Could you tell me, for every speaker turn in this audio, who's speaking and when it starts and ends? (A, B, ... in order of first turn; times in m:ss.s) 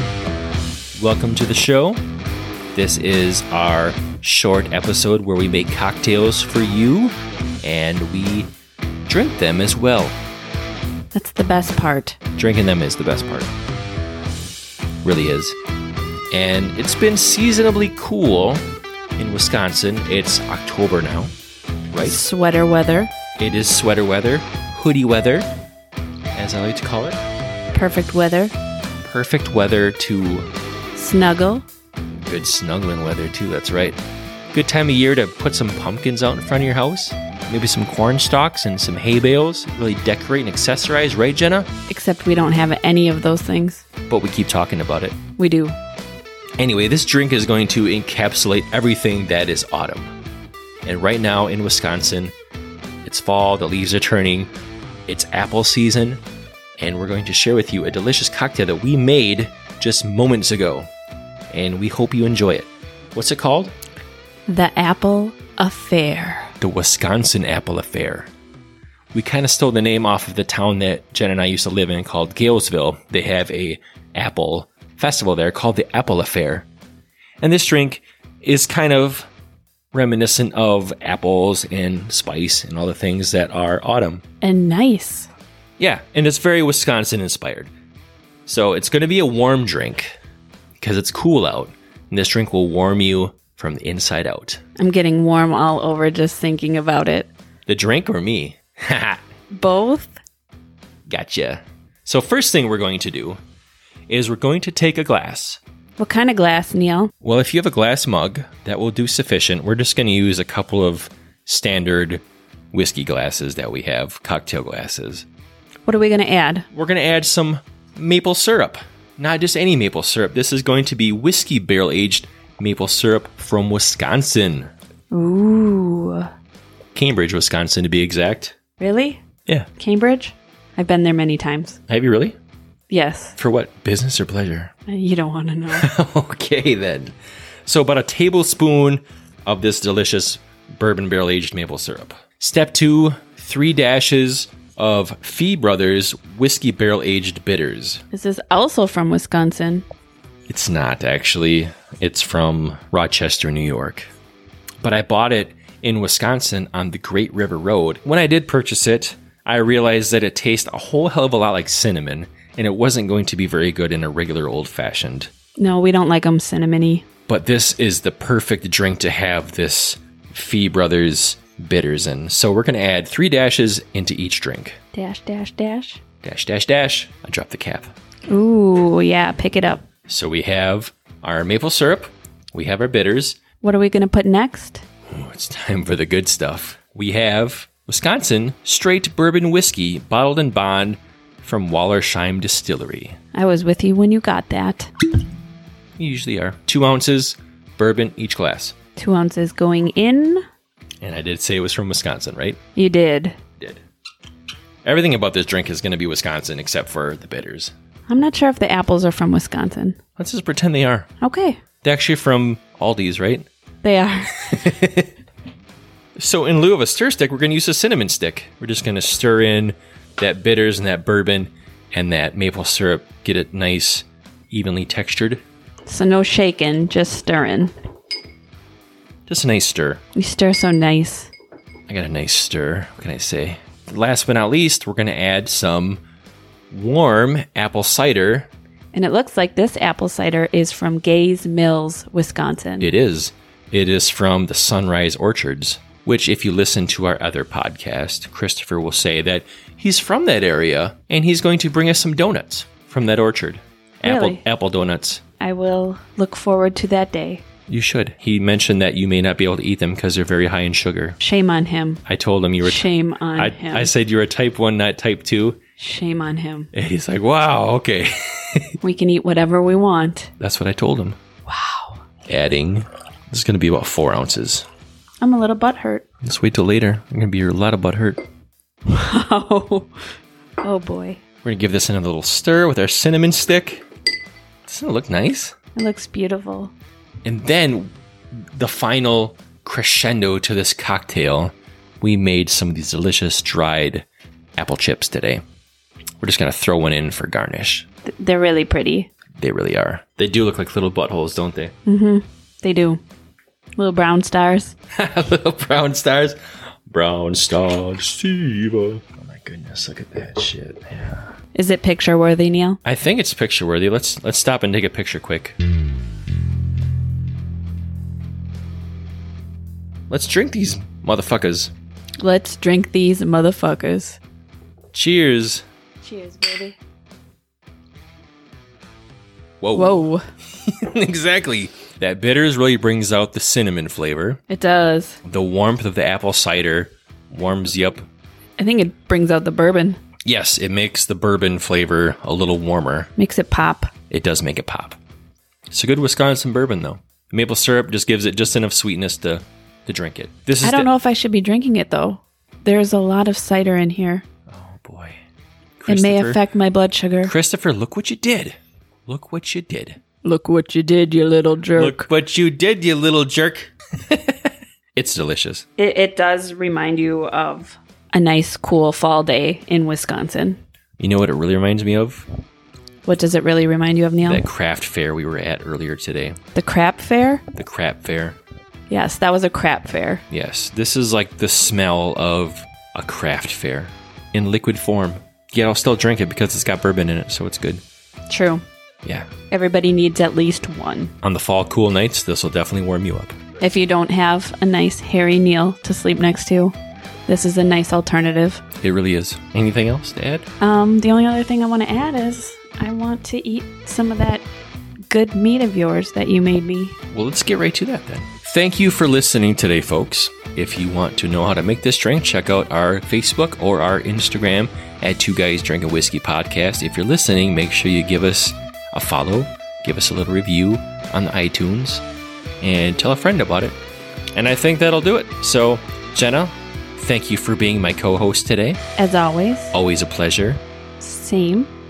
0:01.0-0:02.0 A
0:02.7-0:08.5 A
0:09.1-0:10.2 A
0:11.1-0:12.2 B
0:12.4-0:13.5 A
0:15.0-0:15.6 A
0:16.3-0:18.6 A
0:19.2-0:21.3 A
0:21.9-0:22.2 A
0:22.0-0:23.1 B
0:23.4-0:25.5 A
0:26.3-0:27.2 A
0:27.7-0:28.6 B
0:29.0-0:30.5 A
0:31.0-0:31.6 B
0:32.2-0:34.0 A
0:34.5-0:41.7 A
0:41.9-0:43.8 B
0:44.1-0:45.2 A
0:45.4-0:45.8 B
0:46.6-0:50.1 A
0:50.9-0:52.3 A
0:53.0-0:54.5 A
0:55.1-0:56.2 A
0:56.8-1:00.9 A
1:01.5-1:03.7 A
1:04.5-1:06.5 B
1:06.6-1:08.3 A
1:09.1-1:16.7 A
1:17.4-1:19.3 A
1:19.9-1:24.2 A
1:24.4-1:25.3 B
1:25.8-1:27.7 A
1:28.5-1:30.2 A
1:30.8-1:34.6 A
1:34.8-1:37.3 B
1:37.7-1:39.2 A
1:39.5-1:40.2 B
1:41.1-1:43.4 A
1:44.1-1:45.6 A
1:46.0-1:47.1 B
1:47.2-1:55.3 A
1:55.9-1:56.7 B
1:56.7-2:04.7 A
2:05.1-2:06.3 B
2:07.0-2:08.6 A
2:08.8-2:09.2 B
2:09.8-2:11.8 B
2:11.9-2:12.4 A
2:12.9-2:13.4 B
2:13.4-2:14.7 A
2:14.9-2:15.9 B
2:15.7-2:28.0 A
2:28.1-2:29.9 B
2:30.5-2:34.1 A
2:34.8-2:45.3 A
2:45.6-2:47.1 B
2:47.3-2:54.8 A
2:54.9-2:56.0 B
2:56.2-2:57.9 A
2:58.3-2:59.8 B
3:00.1-3:03.4 A
3:03.6-3:04.8 B
3:05.1-3:13.2 A
3:13.3-3:14.9 B
3:16.0-3:18.7 A
3:19.0-3:20.4 B
3:21.0-3:22.6 A
3:22.8-3:23.4 B
3:24.8-3:27.7 A
3:28.1-3:30.0 B
3:30.2-3:31.1 A
3:31.2-3:31.6 B
3:31.8-3:33.5 A
3:33.8-3:34.6 B
3:34.5-3:35.1 A
3:36.2-3:45.4 A
3:45.9-3:47.7 B
3:49.3-3:50.0 A
3:50.2-3:51.3 B
3:51.9-3:56.0 A
3:56.7-3:58.5 A
3:58.9-4:02.9 B
4:02.8-4:15.2 A
4:14.0-4:14.4 B
4:15.4-4:17.4 B
4:17.7-4:21.2 A
4:21.2-4:22.0 B
4:22.1-4:25.6 A
4:22.6-4:23.9 B
4:25.8-4:26.7 B
4:26.7-4:28.8 A
4:28.8-4:30.3 B
4:30.4-4:31.2 A
4:31.5-4:32.0 B
4:32.3-4:34.7 A
4:35.2-4:36.0 B
4:36.2-4:38.2 A
4:38.9-4:39.9 B
4:40.6-4:41.2 B
4:41.4-4:43.8 A
4:44.7-4:45.6 A
4:45.8-4:46.7 B
4:47.2-4:47.9 A
4:48.5-4:54.1 A
4:54.6-4:55.4 A
4:56.2-4:57.9 A
4:58.1-4:59.1 B
4:59.4-5:01.7 A
5:01.9-5:03.0 B
5:03.8-5:04.7 B
5:04.9-5:06.4 A
5:06.9-5:11.3 A
5:11.5-5:12.8 B
5:12.8-5:15.6 A
5:20.1-5:21.7 A
5:22.2-5:24.2 B
5:24.9-5:25.6 A
5:26.0-5:26.8 B
5:29.6-5:30.1 A
5:29.7-5:30.2 B
5:30.6-5:34.4 A
5:34.5-5:35.2 B
5:35.2-5:38.1 A
5:38.6-5:40.0 B
5:40.2-5:43.1 A
5:43.2-5:43.9 B
5:44.1-5:45.0 A
5:45.7-5:50.9 A
5:50.6-5:54.2 B
5:54.5-5:55.2 A
5:55.8-5:56.4 A
5:55.9-5:57.3 B
5:57.2-5:58.6 A
5:59.1-6:00.0 A
6:00.2-6:02.1 B
6:01.7-6:05.7 A
6:05.8-6:10.6 B
6:11.0-6:12.3 A
6:13.1-6:14.4 B
6:14.2-6:16.4 A
6:16.6-6:17.4 B
6:17.5-6:18.4 A
6:18.9-6:20.2 B
6:20.3-6:27.8 A
6:28.3-6:28.6 B
6:29.0-6:29.3 A
6:29.5-6:31.1 B
6:31.2-6:33.4 A
6:33.6-6:38.6 B
6:38.8-6:40.5 A
6:40.6-6:44.4 B
6:45.1-6:47.0 B
6:47.1-7:02.0 A
7:02.6-7:03.8 A
7:04.4-7:08.8 A
7:09.0-7:09.8 B
7:09.7-7:10.6 A
7:11.0-7:11.7 B